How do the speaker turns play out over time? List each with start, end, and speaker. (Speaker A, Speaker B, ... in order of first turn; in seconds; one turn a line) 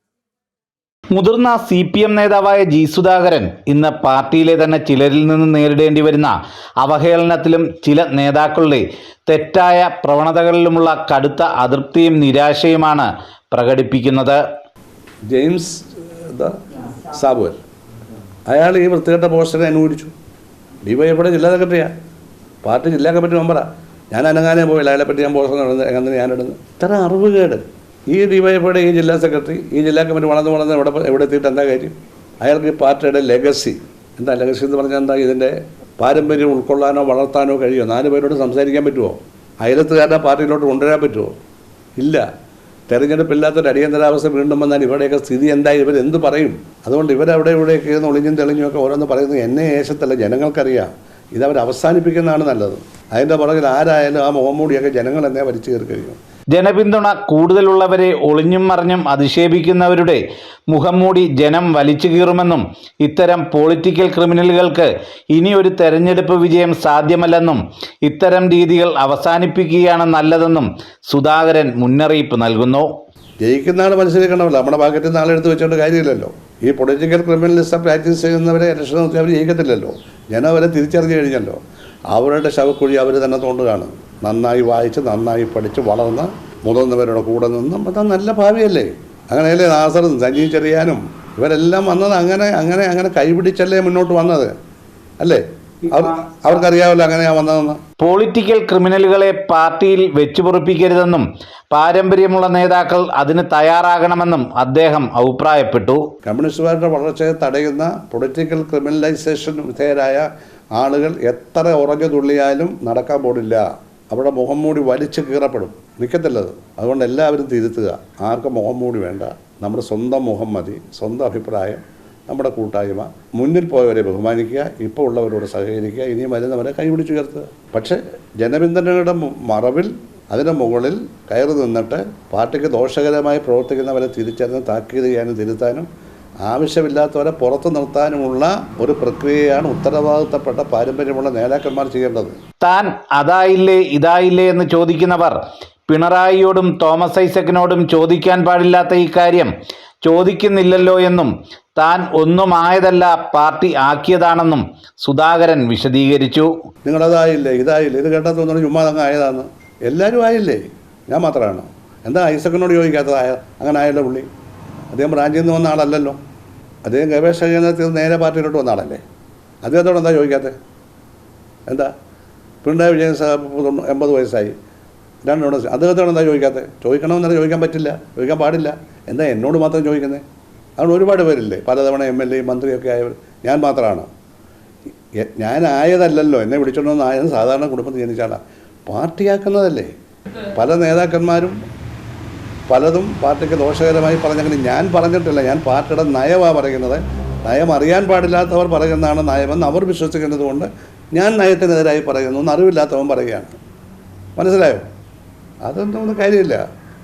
Speaker A: 1.1-14.4
Speaker B: 15.3-16.6
Speaker B: 17.1-17.6
Speaker B: 18.5-20.1
Speaker B: 20.8-21.9
Speaker B: 22.6-41.3
Speaker B: 42.0-42.2
Speaker B: 42.9-56.2
Speaker A: 56.5-72.9
Speaker B: 73.4-81.6
Speaker B: 82.1-94.5
Speaker B: 95.2-97.8
Speaker A: 98.0-106.0
Speaker B: 106.2-135.9
Speaker B: 136.4-142.3
Speaker A: 142.6-145.3
Speaker A: 145.9-149.5
Speaker A: 150.0-156.5
Speaker B: 156.8-164.3
Speaker B: 164.9-166.2
Speaker B: 166.8-169.0
Speaker B: 169.6-170.5
Speaker B: 172.6-174.5
Speaker B: 175.2-180.2
Speaker B: 180.8-184.1
Speaker B: 185.2-189.9
Speaker B: 190.5-191.6
Speaker B: 192.7-203.6
Speaker B: 204.4-204.8
Speaker B: 205.6-206.6